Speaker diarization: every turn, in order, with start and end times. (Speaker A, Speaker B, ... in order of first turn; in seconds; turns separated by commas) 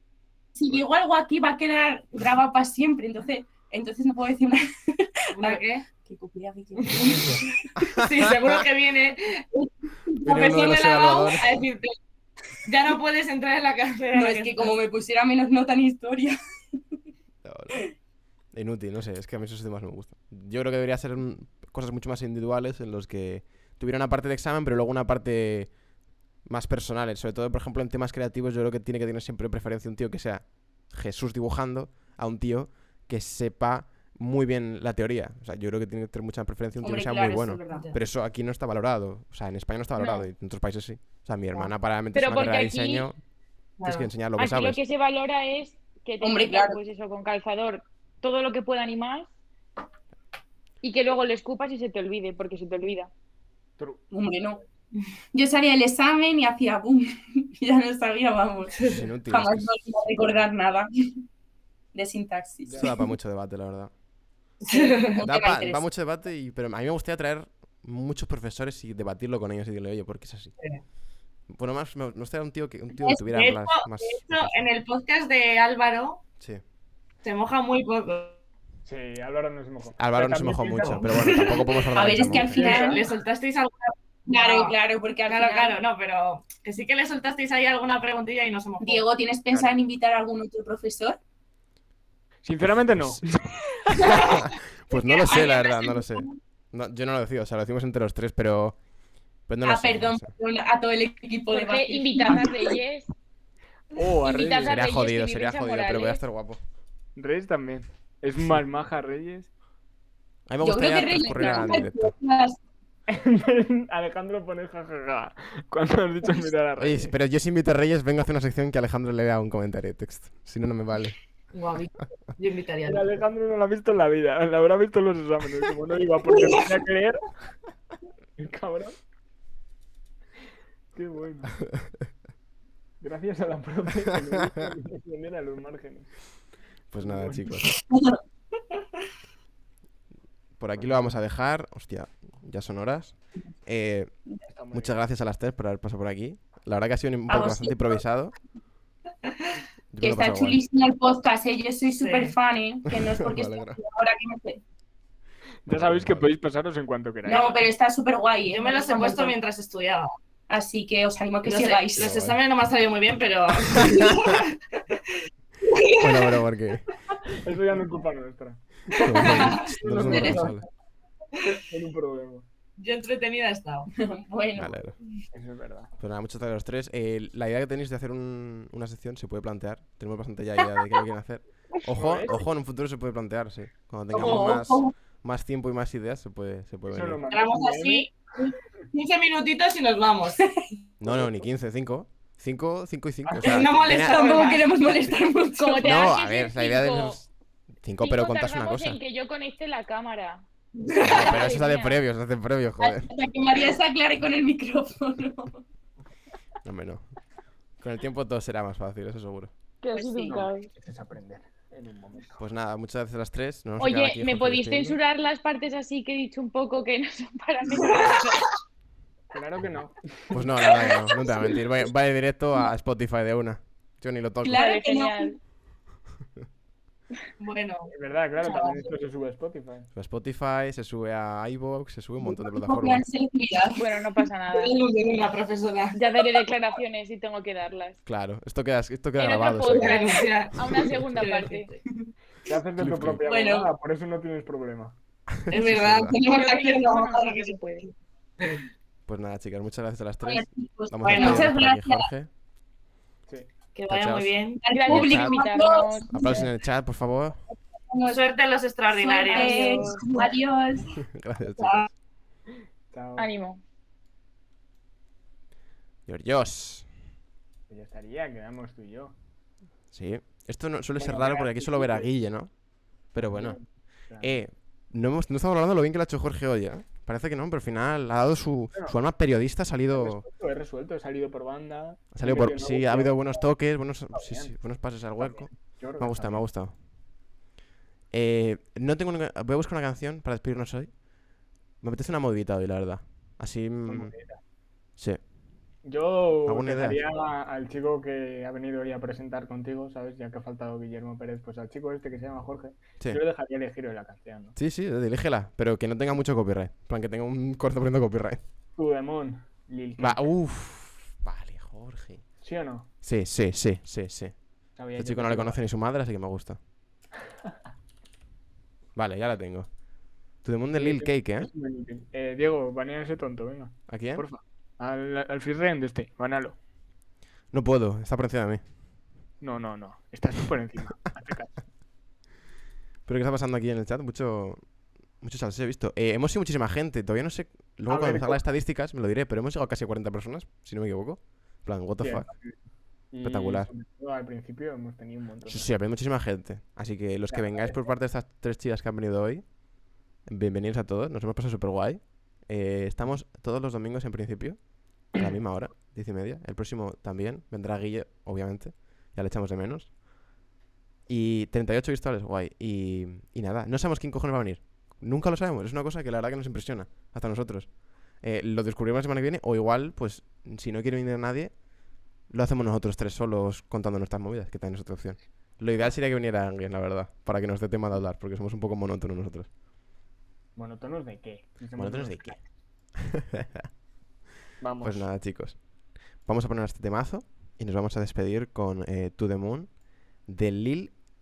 Speaker A: 0.6-8.0, Speaker B: 5.3-5.8, Speaker B: 6.8-11.9, Speaker C: 8.0-8.3, Speaker C: 10.2-11.6, Speaker B: 12.6-14.8, Speaker A: 14.1-16.4, Speaker C: 17.4-17.9, Speaker C: 18.5-25.7, Speaker C: 26.4-43.2, Speaker A: 36.8-37.9, Speaker B: 37.7-38.0, Speaker D: 40.0-40.3, Speaker D: 42.1-43.1, Speaker B: 43.8-44.1, Speaker C: 43.9-44.8, Speaker D: 44.4-49.3, Speaker A: 46.2-46.8, Speaker D: 50.8-53.1, Speaker E: 53.8-54.1, Speaker A: 54.1-54.6, Speaker A: 55.3-60.9, Speaker B: 58.7-59.0, Speaker C: 58.9-59.7, Speaker A: 61.9-63.0, Speaker E: 62.7-62.9, Speaker C: 62.8-63.9, Speaker B: 64.6-65.2, Speaker A: 64.7-65.8, Speaker C: 65.2-70.5, Speaker C: 71.5-74.7, Speaker B: 73.0-76.2, Speaker B: 77.2-78.4, Speaker E: 78.8-81.3, Speaker C: 80.0-82.6, Speaker B: 80.8-81.9, Speaker A: 82.0-83.0, Speaker E: 82.3-83.0, Speaker B: 82.5-89.0, Speaker A: 84.3-85.8, Speaker A: 88.8-91.2, Speaker E: 92.4-93.5, Speaker C: 92.9-93.2, Speaker C: 93.9-98.8, Speaker B: 94.0-94.5, Speaker A: 94.9-96.3, Speaker B: 95.3-95.6, Speaker C: 99.5-100.3, Speaker A: 99.6-102.8, Speaker D: 101.5-103.1, Speaker E: 103.9-104.8, Speaker D: 104.2-106.2, Speaker C: 104.6-106.6, Speaker E: 107.2-109.5, Speaker C: 110.5-112.1, Speaker A: 110.6-112.6, Speaker E: 113.1-117.1, Speaker C: 116.8-121.2, Speaker B: 121.5-123.2, Speaker E: 122.8-127.3, Speaker E: 128.4-129.0, Speaker E: 130.9-131.5, Speaker E: 133.0-136.1, Speaker C: 136.9-137.8, Speaker E: 137.0-137.5, Speaker A: 137.8-138.2, Speaker C: 140.6-144.1, Speaker E: 140.8-141.2, Speaker E: 144.5-144.9, Speaker C: 144.7-148.3, Speaker A: 147.3-148.0, Speaker C: 149.9-150.6, Speaker A: 150.0-154.6, Speaker B: 152.0-152.3, Speaker C: 152.9-153.8, Speaker E: 155.7-157.6, Speaker C: 155.7-156.3, Speaker A: 157.2-159.4, Speaker B: 158.5-160.2, Speaker A: 160.5-162.2, Speaker B: 161.4-165.1, Speaker C: 162.0-162.4, Speaker C: 163.8-164.3, Speaker B: 165.7-166.4, Speaker C: 165.8-166.9, Speaker E: 167.3-170.5, Speaker B: 169.0-169.6, Speaker C: 169.0-170.7, Speaker A: 170.0-170.5, Speaker B: 170.2-170.5, Speaker B: 171.4-171.6, Speaker E: 171.7-172.4, Speaker B: 172.8-173.9, Speaker A: 173.9-174.9, Speaker C: 174.6-175.0, Speaker E: 175.3-175.9, Speaker C: 176.0-187.2, Speaker E: 181.9-182.4, Speaker A: 184.1-184.9, Speaker B: 184.2-184.5, Speaker E: 186.9-188.2, Speaker B: 187.3-190.4, Speaker C: 191.0-194.4, Speaker E: 193.2-193.9, Speaker B: 193.4-194.9, Speaker A: 193.9-196.2, Speaker D: 195.6-197.2, Speaker C: 195.8-197.3, Speaker C: 197.8-199.0, Speaker D: 198.0-200.4, Speaker B: 200.8-201.4, Speaker D: 201.0-202.0, Speaker C: 201.0-203.1, Speaker A: 202.8-205.6, Speaker C: 206.6-207.1, Speaker C: 207.8-209.5, Speaker D: 209.8-210.7, Speaker A: 209.9-210.3, Speaker E: 210.2-212.4, Speaker C: 212.4-215.0, Speaker D: 213.8-218.4, Speaker E: 219.3-220.6, Speaker C: 220.3-224.7, Speaker B: 220.7-221.0, Speaker A: 224.4-225.3, Speaker D: 224.5-225.4, Speaker B: 227.4-228.8, Speaker E: 227.9-229.9, Speaker C: 229.9-233.0, Speaker A: 232.2-233.8, Speaker D: 233.8-234.8, Speaker B: 234.5-236.0, Speaker D: 235.9-238.0, Speaker C: 238.1-240.0, Speaker D: 239.2-241.7, Speaker B: 239.7-240.5, Speaker C: 240.6-240.9, Speaker B: 241.1-241.8, Speaker E: 242.4-245.0, Speaker C: 242.8-243.2, Speaker A: 243.2-243.7, Speaker C: 245.4-246.2, Speaker B: 245.5-248.7, Speaker D: 246.2-247.9, Speaker C: 249.1-252.3, Speaker A: 250.2-252.1, Speaker B: 251.1-251.5, Speaker B: 253.8-254.6, Speaker C: 253.9-254.3, Speaker A: 254.6-256.5, Speaker D: 254.7-256.2, Speaker C: 254.9-255.4, Speaker C: 256.1-257.4, Speaker A: 257.9-258.2, Speaker B: 258.0-260.3, Speaker A: 259.0-260.9, Speaker D: 259.3-260.2, Speaker C: 261.1-261.9, Speaker B: 261.4-261.9, Speaker E: 262.9-263.3, Speaker D: 263.2-263.6, Speaker C: 266.1-266.9, Speaker E: 267.7-269.1, Speaker C: 269.9-273.6, Speaker E: 271.0-272.1, Speaker E: 273.2-274.4, Speaker C: 274.2-280.2, Speaker E: 279.9-283.5, Speaker C: 282.1-286.8, Speaker E: 284.1-284.5, Speaker E: 285.2-286.5, Speaker C: 288.1-291.1, Speaker C: 291.8-294.1, Speaker E: 293.9-294.4, Speaker C: 295.0-295.2, Speaker E: 295.8-304.6, Speaker C: 296.5-297.0, Speaker C: 304.6-308.4, Speaker E: 308.8-310.2, Speaker C: 310.0-312.3, Speaker E: 312.4-312.9, Speaker C: 313.0-316.6, Speaker E: 314.8-315.6, Speaker C: 318.9-319.8, Speaker C: 320.3-321.5, Speaker E: 320.7-326.6, Speaker C: 323.9-324.3, Speaker C: 327.5-328.6, Speaker E: 329.4-331.6, Speaker C: 333.1-342.3, Speaker E: 337.9-338.4, Speaker E: 342.0-345.7, Speaker C: 343.2-343.7, Speaker C: 345.5-349.6, Speaker E: 347.3-347.9, Speaker C: 350.2-360.0, Speaker C: 361.1-371.6, Speaker C: 372.2-379.5, Speaker E: 380.6-382.5, Speaker C: 381.8-382.4, Speaker C: 383.0-383.7, Speaker E: 384.6-385.1, Speaker C: 384.8-391.0